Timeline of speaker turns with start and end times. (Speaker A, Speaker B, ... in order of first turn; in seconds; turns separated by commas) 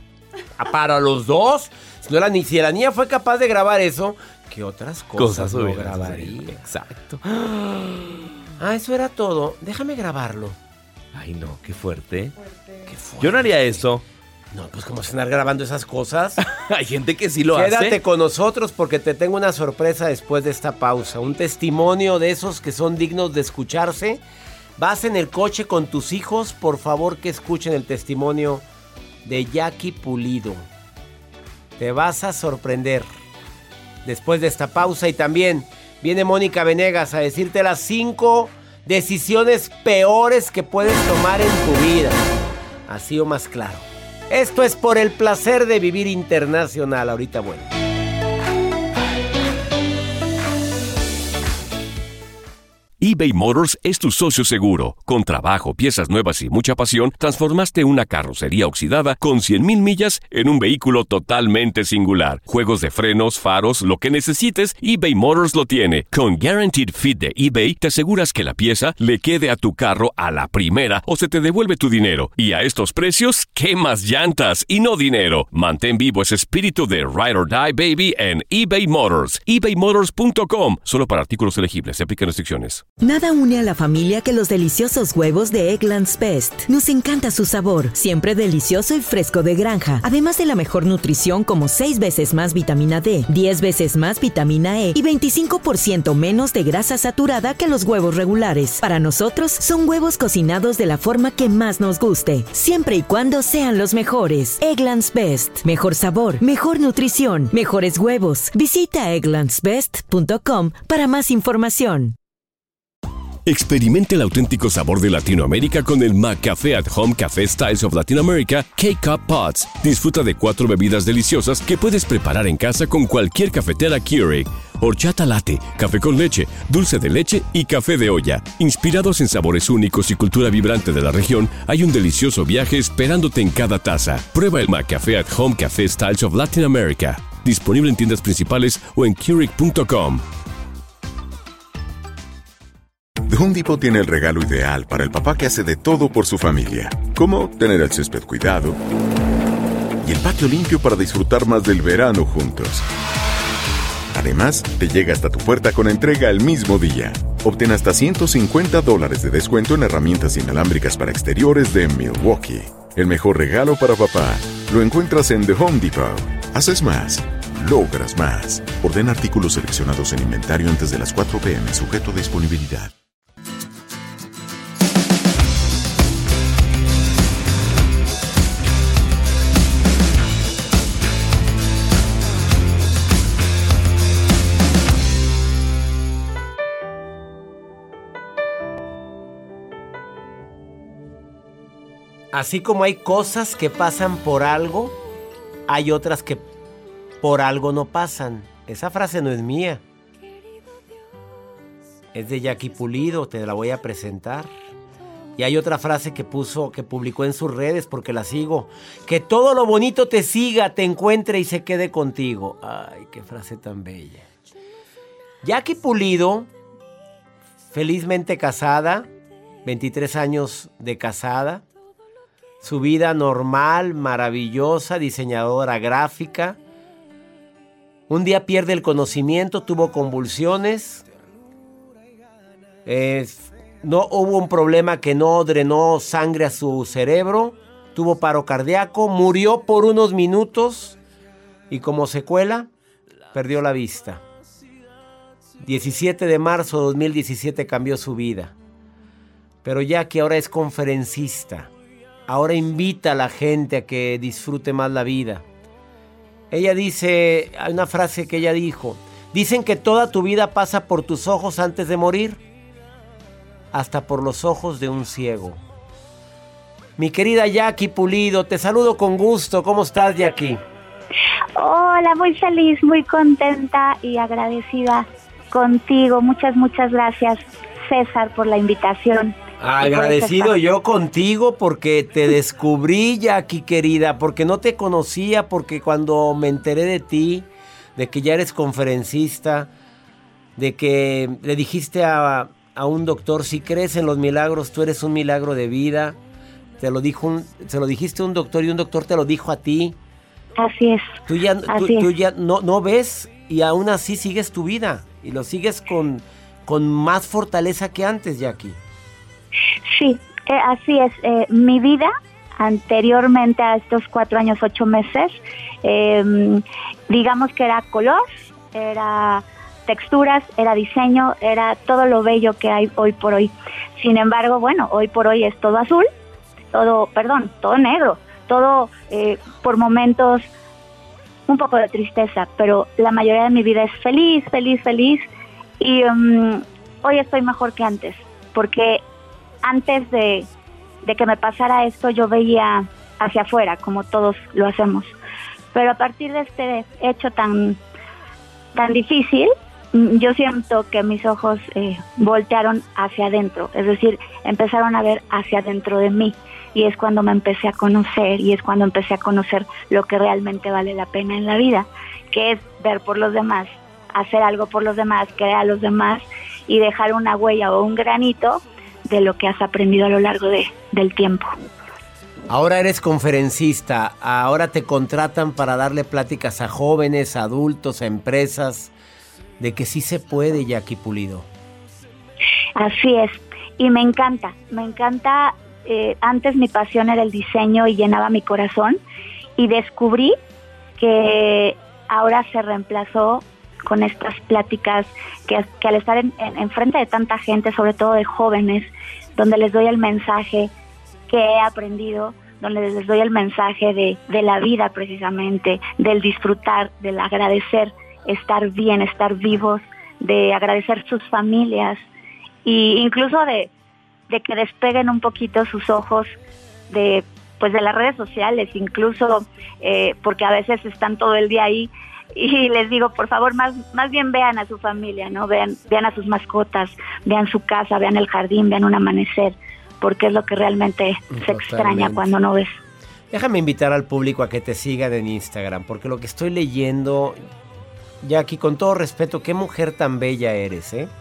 Speaker A: 0.6-6.7, Speaker B: 5.2-8.3, Speaker A: 8.6-10.6, Speaker B: 11.1-12.3, Speaker A: 12.8-13.8, Speaker B: 13.2-14.0, Speaker A: 14.5-16.4, Speaker B: 16.4-18.0, Speaker A: 17.5-24.2, Speaker A: 24.8-28.6, Speaker A: 29.2-30.6, Speaker A: 31.8-33.0, Speaker A: 34.0-42.2, Speaker A: 42.9-47.7, Speaker C: 53.0-82.8, Speaker D: 83.0-112.1, Speaker C: 113.5-140.2, Speaker E: 143.2-148.8, Speaker E: 150.0-152.8, Speaker E: 154.1-172.9, Speaker A: 192.3-194.9, Speaker A: 195.7-196.4, Speaker A: 197.2-199.8, Speaker A: 202.1-204.5, Speaker A: 205.4-214.3, Speaker A: 215.4-216.5, Speaker A: 217.7-219.1, Speaker A: 219.6-221.6, Speaker A: 222.6-226.6, Speaker A: 228.1-231.0, Speaker A: 232.8-241.0, Speaker A: 241.7-242.7, Speaker A: 243.3-244.2, Speaker A: 245.6-248.5, Speaker A: 249.6-251.7, Speaker A: 252.3-255.4, Speaker A: 256.5-262.4, Speaker A: 263.7-265.6, Speaker A: 267.0-270.6, Speaker F: 271.6-280.5, Speaker A: 279.6-289.7, Speaker A: 290.6-296.2, Speaker A: 296.8-300.0, Speaker F: 300.6-301.1, Speaker A: 301.3-308.8, Speaker F: 301.7-302.1, Speaker F: 309.9-326.1, Speaker F: 326.7-330.5, Speaker F: 331.5-335.2, Speaker F: 335.8-339.0, Speaker F: 339.6-340.5, Speaker F: 341.0-345.1, Speaker F: 345.7-347.8, Speaker F: 348.7-371.5, Speaker A: 372.5-378.9, Speaker A: 379.6-381.5, Speaker F: 382.8-389.0, Speaker F: 389.6-390.4, Speaker F: 391.0-400.7, Speaker F: 401.3-412.0, Speaker F: 412.6-413.7, Speaker F: 414.3-416.3, Speaker F: 416.9-432.7, Speaker A: 431.3-432.3, Speaker A: 433.3-437.4, Speaker A: 438.2-441.1